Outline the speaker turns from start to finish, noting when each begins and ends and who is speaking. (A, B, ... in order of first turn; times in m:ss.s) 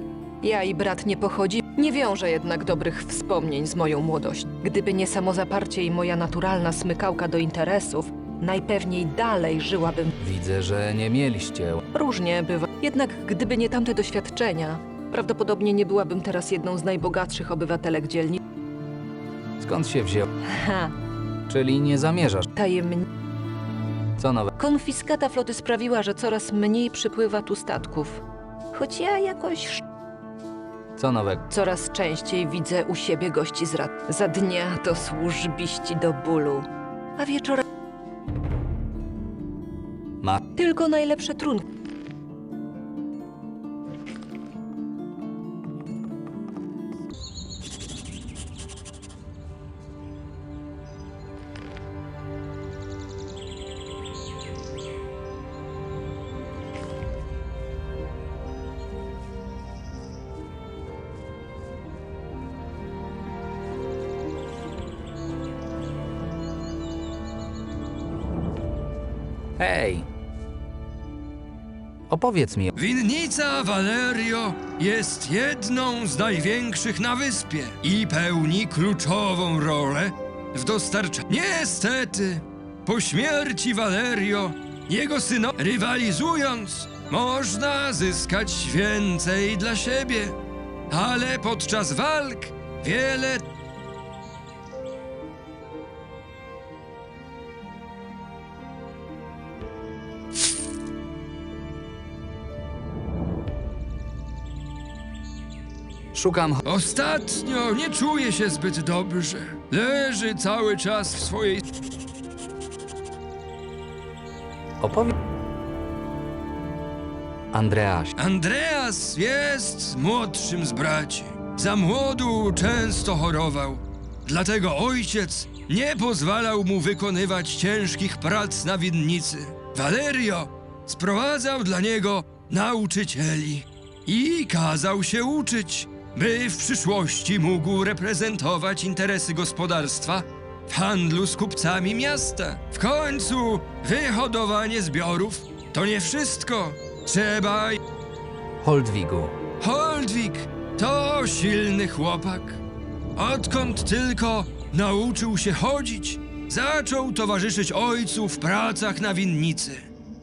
0:00.4-0:10.2 A
0:10.2-0:11.8 B
0:11.9-0:18.4 A
0:19.6-0:20.3 B
0:20.4-0:21.0 A
0:21.5-0:22.5 B
0:22.5-0:23.1 A
0:24.2-0:24.5 B
0:24.6-0:29.8 A
0:31.0-0:31.4 B
0:31.5-0:37.6 A
0:40.5-0:41.7 A
1:09.6-1:10.0 B
1:12.1-1:12.7 B
1:12.7-1:30.4 C
1:30.9-1:33.4 C
1:46.1-1:46.6 B
1:46.6-1:51.6 C
1:54.8-1:55.1 B
1:57.5-1:58.1 B
1:58.2-2:27.8 C
2:28.6-2:29.4 B
2:29.6-2:32.6 C
2:33.2-2:39.9 C